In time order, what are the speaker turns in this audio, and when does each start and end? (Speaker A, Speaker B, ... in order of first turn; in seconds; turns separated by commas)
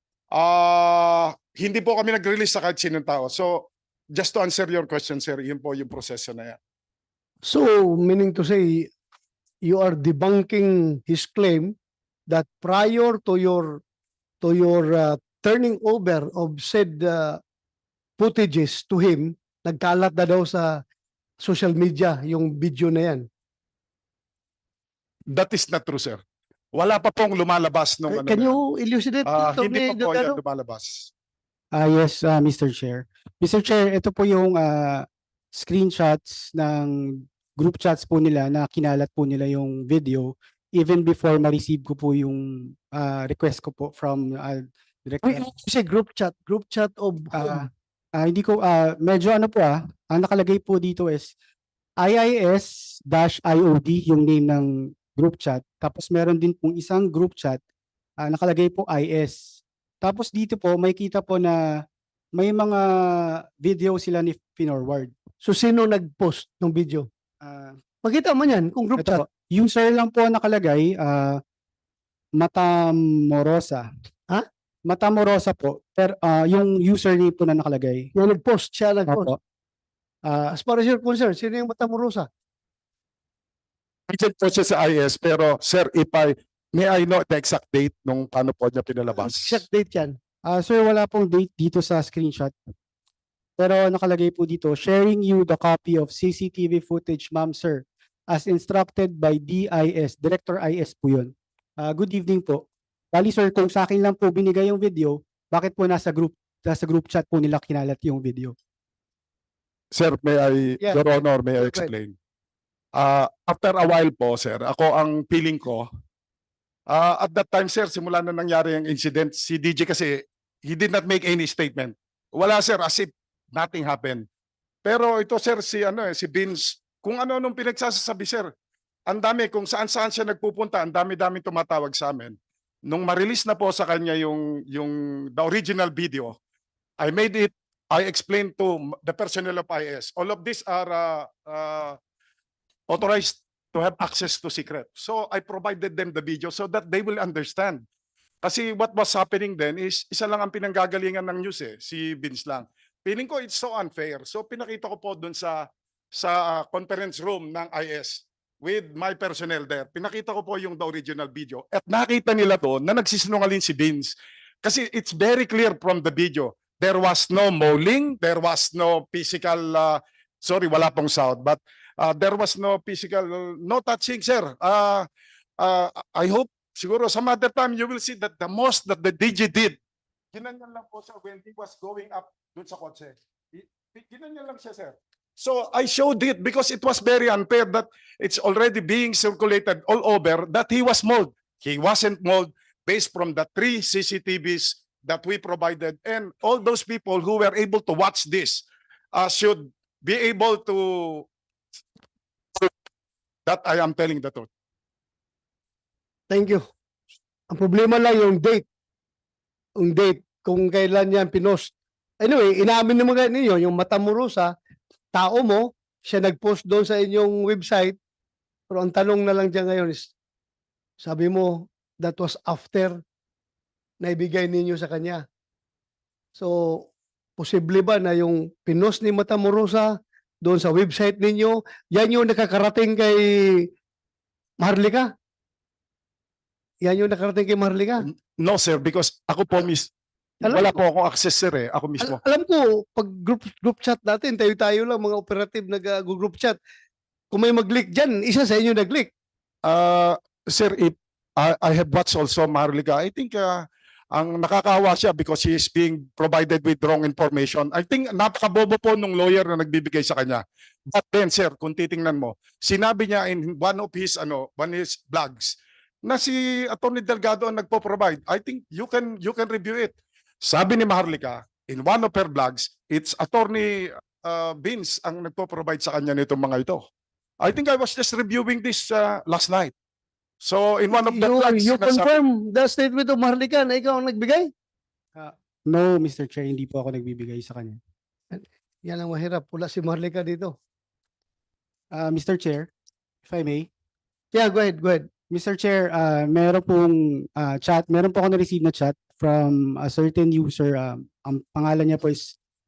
Speaker A: 0.3-6.6, Speaker B: 7.5-8.9, Speaker B: 9.7-11.7, Speaker B: 12.3-13.8, Speaker B: 14.4-17.4, Speaker B: 18.2-20.7, Speaker B: 21.4-23.3, Speaker A: 25.3-26.2, Speaker A: 26.7-28.6, Speaker B: 28.1-30.4, Speaker A: 29.2-31.1, Speaker C: 31.8-45.5, Speaker B: 45.2-47.7, Speaker C: 47.3-47.7, Speaker C: 48.2-51.3, Speaker C: 52.0-57.6, Speaker C: 58.2-61.6, Speaker C: 62.4-65.1, Speaker B: 65.4-67.0, Speaker C: 67.4-67.8, Speaker B: 68.0-69.2, Speaker C: 69.0-71.4, Speaker C: 72.4-73.9, Speaker C: 74.9-78.1, Speaker B: 78.2-79.3, Speaker C: 79.1-79.4, Speaker B: 80.6-82.3, Speaker A: 84.1-89.6, Speaker B: 89.2-90.2, Speaker C: 90.5-92.5, Speaker C: 93.6-108.5, Speaker A: 109.9-112.1, Speaker B: 111.6-111.9, Speaker A: 113.0-115.9, Speaker A: 116.9-124.2, Speaker A: 124.8-128.5, Speaker A: 129.1-132.4, Speaker A: 132.9-136.4, Speaker A: 137.0-142.0, Speaker A: 142.9-147.8, Speaker A: 148.4-175.1, Speaker A: 175.6-179.8, Speaker A: 180.3-201.3, Speaker A: 203.5-204.5, Speaker B: 206.3-206.6, Speaker B: 207.5-208.6, Speaker B: 209.8-214.5, Speaker B: 215.2-218.0, Speaker B: 218.7-220.1, Speaker B: 221.0-223.0, Speaker B: 224.0-225.2, Speaker B: 226.4-226.9, Speaker B: 227.4-233.7, Speaker B: 234.6-235.1, Speaker B: 236.8-238.1, Speaker A: 238.1-239.9, Speaker A: 240.4-242.2, Speaker B: 240.4-240.7, Speaker B: 242.0-246.6, Speaker B: 247.3-249.1, Speaker A: 249.7-253.6, Speaker A: 254.2-276.9, Speaker A: 277.4-279.7, Speaker A: 280.4-282.1, Speaker B: 280.9-284.5, Speaker C: 285.2-287.8, Speaker B: 288.3-290.5, Speaker C: 291.9-292.7, Speaker C: 293.2-293.7, Speaker B: 294.3-295.1, Speaker C: 295.3-302.4